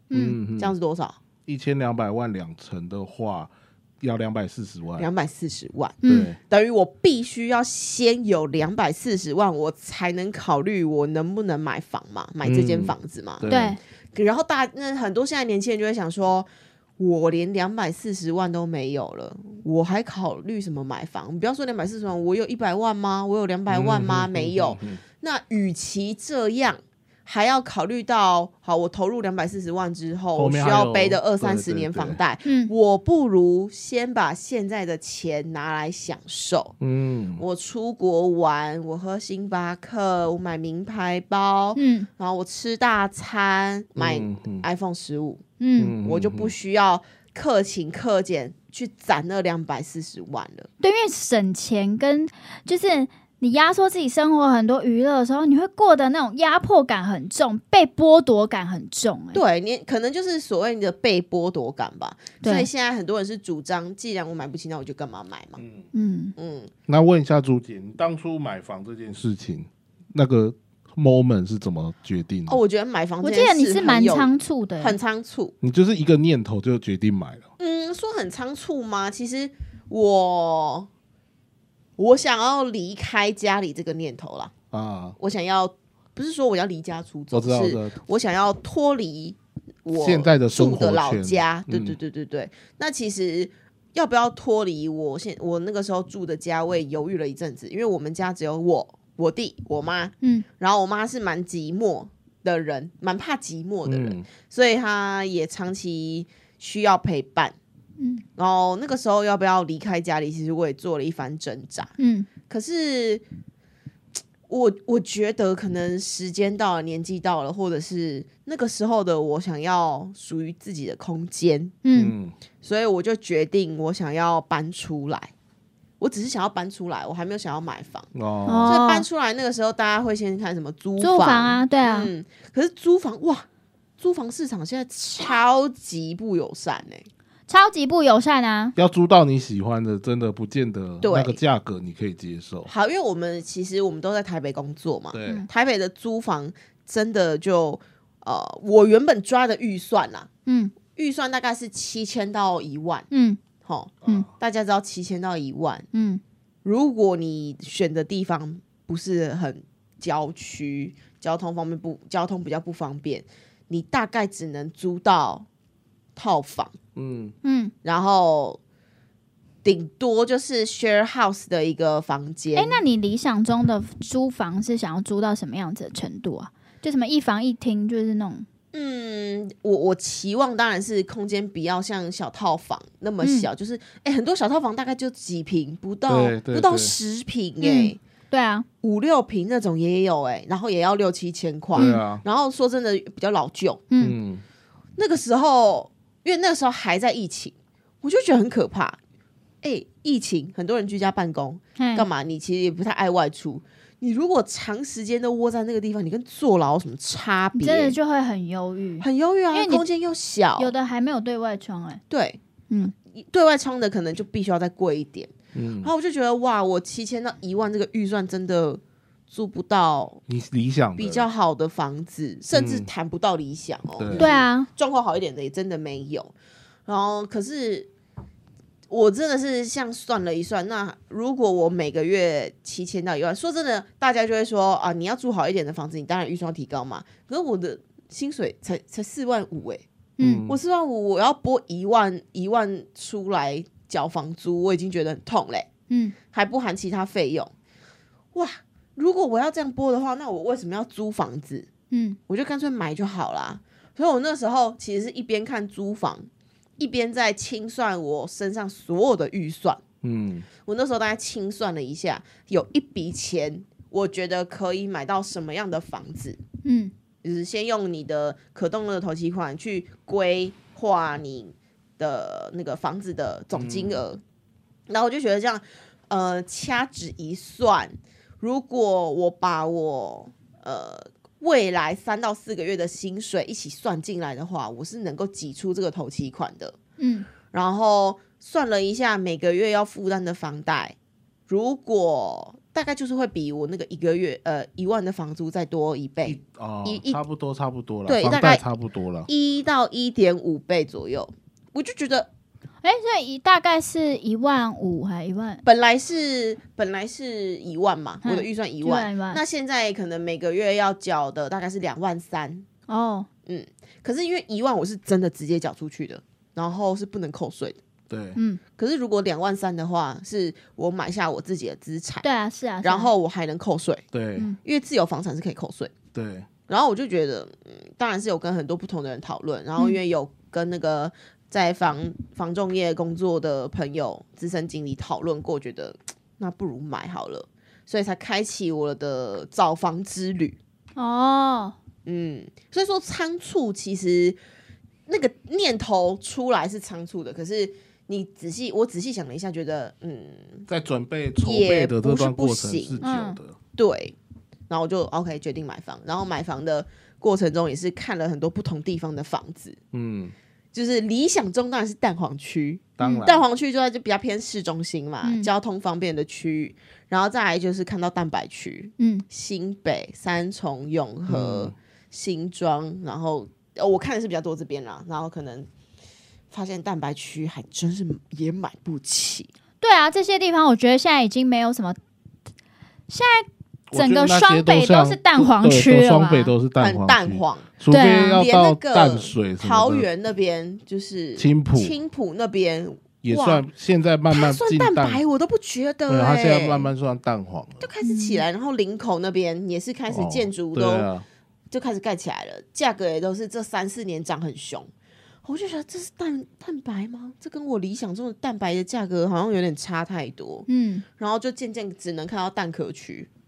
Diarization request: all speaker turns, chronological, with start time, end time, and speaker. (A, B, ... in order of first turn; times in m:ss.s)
0:00.1-0:00.4 A
0:00.1-0:00.7 B
0:00.6-0:01.2 C
0:01.5-0:05.1 B
0:05.0-0:13.5 C
0:06.0-0:06.3 A
0:06.0-0:06.4 B
0:12.4-0:13.8 B
0:13.5-0:13.8 A
0:14.2-0:16.5 C
0:17.0-0:36.8 C
0:23.7-0:25.0 B
0:30.4-0:32.2 B
0:32.4-0:32.7 A
0:36.8-0:37.4 B
0:37.4-0:45.4 C
0:41.8-0:42.1 A
0:44.0-0:44.6 B
0:45.6-0:46.0 A
0:45.8-0:46.5 B
0:46.0-0:50.7 C
0:50.8-0:59.4 A
0:59.3-1:05.6 C
1:02.4-1:02.7 A
1:05.6-1:05.8 B
1:05.9-1:06.3 A
1:06.4-1:06.7 C
1:06.9-1:12.6 B
1:12.5-1:15.5 C
1:13.2-1:15.0 A
1:15.6-1:17.4 B
1:17.6-1:20.9 C
1:22.0-1:24.5 C
1:24.7-1:25.2 B
1:25.2-1:47.6 C
1:27.3-1:28.0 B
1:30.0-1:32.0 B
1:43.8-1:44.2 B
1:48.0-1:48.2 A
1:48.4-1:51.9 C
1:52.0-1:52.3 A
1:52.5-1:53.2 C
1:54.5-2:01.8 C
2:01.8-2:02.1 A
2:02.0-2:02.4 B
2:02.6-2:05.3 C
2:06.0-2:08.1 C
2:08.1-2:08.8 B
2:08.5-2:09.1 A
2:08.6-2:13.5 C
2:11.0-2:12.1 A
2:14.0-2:17.1 C
2:17.5-2:18.7 A
2:18.8-2:22.7 B
2:21.0-2:21.4 C
2:22.7-2:30.3 C
2:25.1-2:25.5 B
2:30.5-2:30.7 A
2:30.9-2:33.1 C
2:33.1-2:33.4 A
2:33.6-2:35.9 C
2:34.0-2:34.3 B
2:35.9-2:36.2 A
2:36.6-2:45.5 C
2:46.2-2:46.8 C
2:47.0-2:47.3 B
2:47.4-2:47.7 A
2:47.8-2:48.6 C
2:49.6-2:52.8 C
2:52.6-2:58.5 A
2:58.7-3:08.0 C
3:03.2-3:03.5 A
3:06.1-3:07.0 B
3:07.6-3:08.7 A
3:08.8-3:13.8 C
3:11.8-3:12.0 A
3:11.8-3:12.2 B
3:13.9-3:14.2 A
3:14.0-3:14.4 B
3:15.0-3:19.0 C
3:19.6-3:28.0 C
3:21.8-3:22.1 A
3:27.6-3:29.8 A
3:29.0-3:30.7 C
3:30.6-3:32.0 A
3:32.1-3:32.4 C
3:33.1-3:40.2 C
3:35.5-3:35.9 B
3:40.3-3:41.3 B
3:41.0-3:46.3 C
3:42.5-3:42.9 B
3:44.0-3:44.3 B
3:44.2-3:44.7 A
3:46.9-3:47.9 C
3:48.9-3:59.8 C
4:00.2-4:00.5 A
4:00.2-4:00.6 B
4:00.5-4:05.7 C
4:05.9-4:06.2 A
4:06.3-4:07.5 C
4:08.3-4:11.7 C
4:11.9-4:12.2 A
4:12.3-4:16.3 C
4:16.8-4:19.8 C
4:20.0-4:20.5 B
4:20.6-4:26.4 C
4:26.6-4:26.9 A
4:27.2-4:34.2 C
4:33.5-4:34.0 B
4:34.9-4:46.8 C
4:47.0-4:47.3 A
4:47.5-4:51.0 C
4:51.5-4:57.2 C
4:56.2-4:59.3 B
4:58.1-4:58.6 C
4:59.3-5:02.3 C
5:02.8-5:05.6 A
5:05.6-5:12.7 C
5:08.2-5:09.4 A
5:12.9-5:13.3 A
5:13.5-5:17.8 C
5:18.1-5:18.4 B
5:18.4-5:18.6 A
5:18.8-5:22.3 C
5:22.2-5:23.1 A
5:22.8-5:24.0 C
5:24.1-5:24.5 B
5:24.6-5:25.9 C
5:26.1-5:26.5 B
5:26.7-5:40.6 C
5:41.0-5:41.8 A
5:42.1-5:44.4 C
5:45.1-5:50.7 C
5:50.7-5:53.6 B
5:51.4-5:53.0 C
5:53.0-5:53.4 A
5:53.8-5:54.2 C
5:54.7-5:59.8 C
5:59.9-6:00.3 B
6:00.7-6:15.7 C
6:03.0-6:03.5 B
6:03.0-6:03.3 A
6:05.2-6:05.5 A
6:09.0-6:09.3 A
6:11.3-6:11.7 B
6:16.5-6:19.5 C
6:19.8-6:22.0 A
6:23.1-6:26.5 A
6:23.9-6:30.1 B
6:26.8-6:27.7 C
6:27.9-6:28.4 A
6:28.3-6:33.6 C
6:31.4-6:32.0 B
6:33.2-6:35.2 B
6:34.3-6:36.9 C
6:36.1-6:37.9 B
6:37.8-6:41.1 C
6:38.0-6:38.4 A
6:40.1-6:41.2 B
6:41.7-6:44.9 C
6:45.4-6:50.7 C
6:50.7-6:51.0 A
6:51.2-6:53.3 C